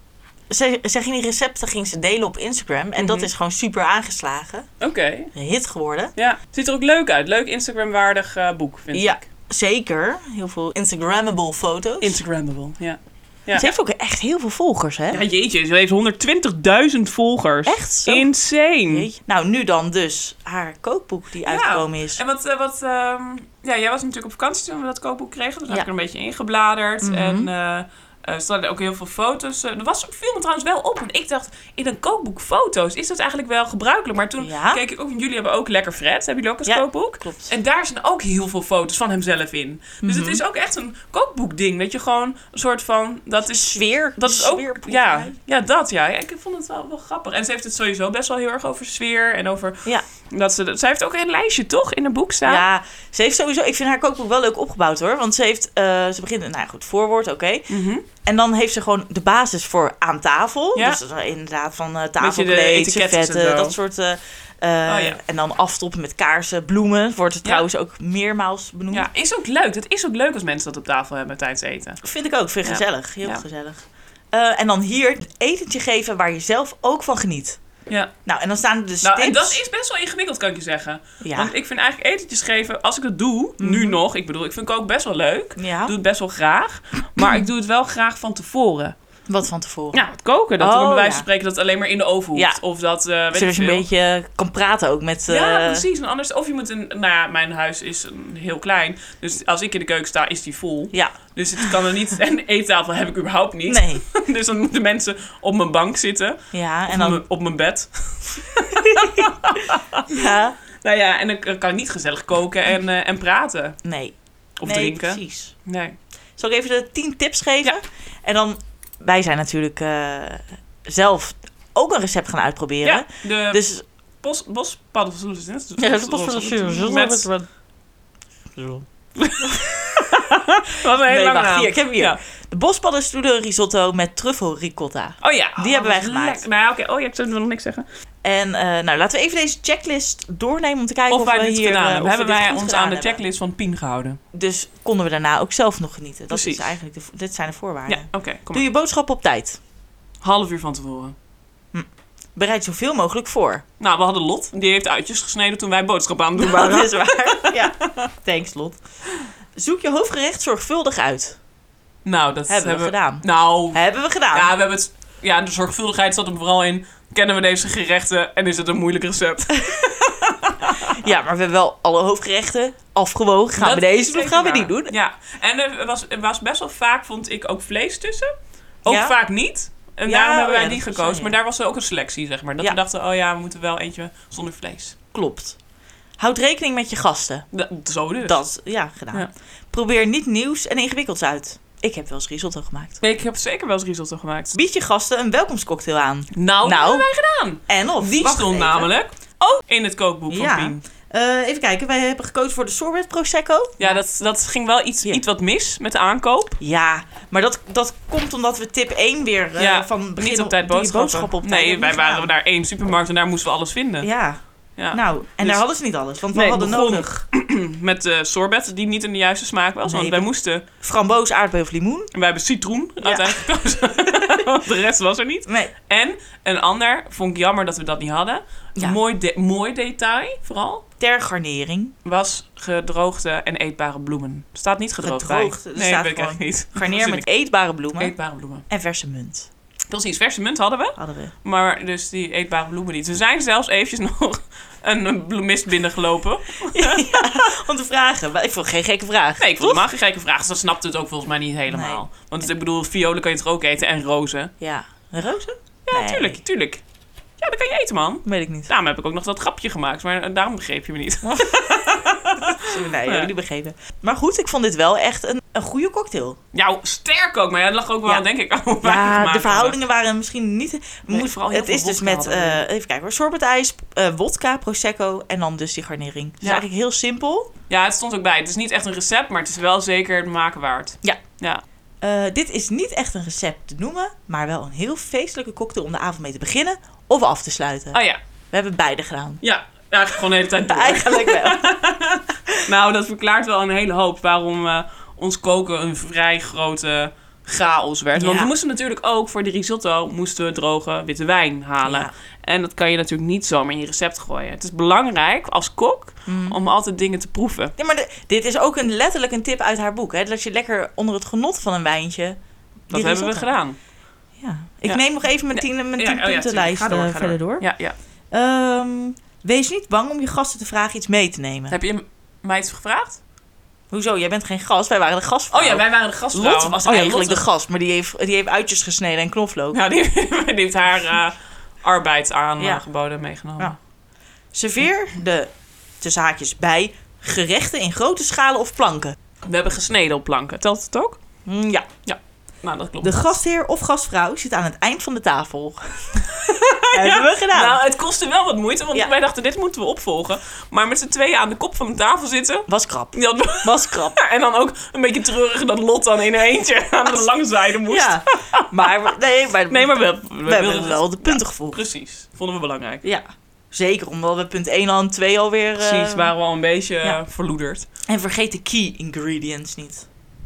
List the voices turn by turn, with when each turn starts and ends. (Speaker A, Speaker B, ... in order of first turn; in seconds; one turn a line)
Speaker A: 0.5-4.7
Speaker B: 3.0-3.3
Speaker B: 4.8-5.3
Speaker A: 5.3-6.1
Speaker B: 6.2-9.3
Speaker A: 8.9-12.2
Speaker B: 12.0-13.7
Speaker A: 13.5-15.2
Speaker B: 15.1-19.1
Speaker A: 17.6-18.3
Speaker A: 18.9-22.2
Speaker B: 21.4-52.6
Speaker A: 27.0-27.5
Speaker A: 34.4-34.8
Speaker A: 36.6-37.5
Speaker A: 40.0-40.4
Speaker A: 43.4-45.4
Speaker A: 52.5-69.1
Speaker B: 57.7-58.0
Speaker B: 60.7-61.0
Speaker B: 62.2-63.7
Speaker B: 64.8-65.2
Speaker B: 68.9-72.0
Speaker A: 72.0-77.6
Speaker B: 72.6-73.4
Speaker A: 78.2-79.6
Speaker B: 79.0-88.9
Speaker A: 81.2-81.5
Speaker A: 83.6-84.0
Speaker A: 85.6-85.9
Speaker A: 87.2-87.5
Speaker A: 89.3-90.0
Speaker B: 89.9-93.8
Speaker A: 90.6-91.2
Speaker A: 92.3-92.6
Speaker A: 93.3-95.9
Speaker B: 95.3-110.2
Speaker A: 100.9-101.8
Speaker A: 103.7-104.0
Speaker A: 106.5-107.2
Speaker A: 108.9-109.3
Speaker A: 110.1-110.6
Speaker B: 110.8-113.8
Speaker A: 113.8-115.5
Speaker B: 114.6-115.9
Speaker A: 116.4-123.8
Speaker B: 122.8-123.6
Speaker B: 124.2-127.3
Speaker A: 125.8-127.5
Speaker A: 128.5-128.8
Speaker B: 129.2-132.2
Speaker A: 129.4-130.1
Speaker A: 130.9-136.4
Speaker B: 135.2-137.8
Speaker A: 138.2-143.2
Speaker B: 141.1-144.2
Speaker A: 144.3-149.6
Speaker B: 146.3-146.7
Speaker B: 147.9-148.6
Speaker B: 150.2-151.1
Speaker A: 151.7-153.6
Speaker B: 153.8-158.1
Speaker A: 156.4-158.8
Speaker A: 159.6-161.4
Speaker B: 162.0-171.0
Speaker A: 162.5-164.5
Speaker A: 169.7-170.1
Speaker A: 170.8-174.9
Speaker B: 173.6-178.3
Speaker B: 178.8-184.9
Speaker A: 178.8-179.2
Speaker A: 180.0-181.3
Speaker A: 185.1-185.6
Speaker A: 186.2-187.5
Speaker B: 187.5-188.4
Speaker A: 188.2-193.0
Speaker B: 193.0-194.6
Speaker A: 194.5-197.1
Speaker B: 196.3-200.8
Speaker A: 197.7-198.9
Speaker A: 200.3-204.0
Speaker B: 203.8-206.6
Speaker A: 206.6-212.3
Speaker B: 209.6-214.1
Speaker A: 214.0-214.4
Speaker B: 214.8-215.6
Speaker A: 214.9-217.2
Speaker B: 216.3-220.6
Speaker A: 219.8-222.1
Speaker B: 222.1-230.8
Speaker A: 223.0-223.5
Speaker A: 224.0-224.5
Speaker A: 225.5-225.7
Speaker A: 231.0-231.9
Speaker B: 232.0-237.2
Speaker A: 235.0-238.1
Speaker B: 238.0-238.7
Speaker A: 238.7-239.5
Speaker B: 239.9-247.5
Speaker A: 241.0-241.3
Speaker A: 246.7-249.8
Speaker B: 249.4-254.5
Speaker A: 251.7-252.0
Speaker A: 254.6-256.4
Speaker B: 255.9-256.8
Speaker B: 257.4-263.3
Speaker A: 258.2-258.7
Speaker A: 261.2-266.4
Speaker B: 266.5-269.8
Speaker A: 268.8-277.5
Speaker B: 271.1-272.6
Speaker B: 276.4-276.6
Speaker B: 277.7-281.6
Speaker A: 282.0-288.0
Speaker B: 287.9-288.2
Speaker A: 288.5-289.4
Speaker B: 289.4-307.7
Speaker A: 290.6-291.7
Speaker A: 298.1-298.5
Speaker A: 301.8-302.1
Speaker A: 306.2-306.6
Speaker A: 307.8-313.5
Speaker B: 312.9-313.8
Speaker A: 314.4-317.7
Speaker B: 315.5-317.9
Speaker A: 318.3-321.7
Speaker B: 321.7-323.2
Speaker A: 323.9-329.8
Speaker B: 325.5-327.4
Speaker B: 329.7-333.8
Speaker A: 334.5-339.1
Speaker B: 339.4-341.2
Speaker A: 341.4-341.9
Speaker B: 342.1-343.4
Speaker A: 343.0-346.3
Speaker B: 346.2-359.1
Speaker A: 346.9-347.8
Speaker A: 352.7-354.2
Speaker A: 357.9-361.8
Speaker B: 359.7-363.0
Speaker A: 363.0-366.3
Speaker B: 365.8-367.9
Speaker A: 368.1-370.1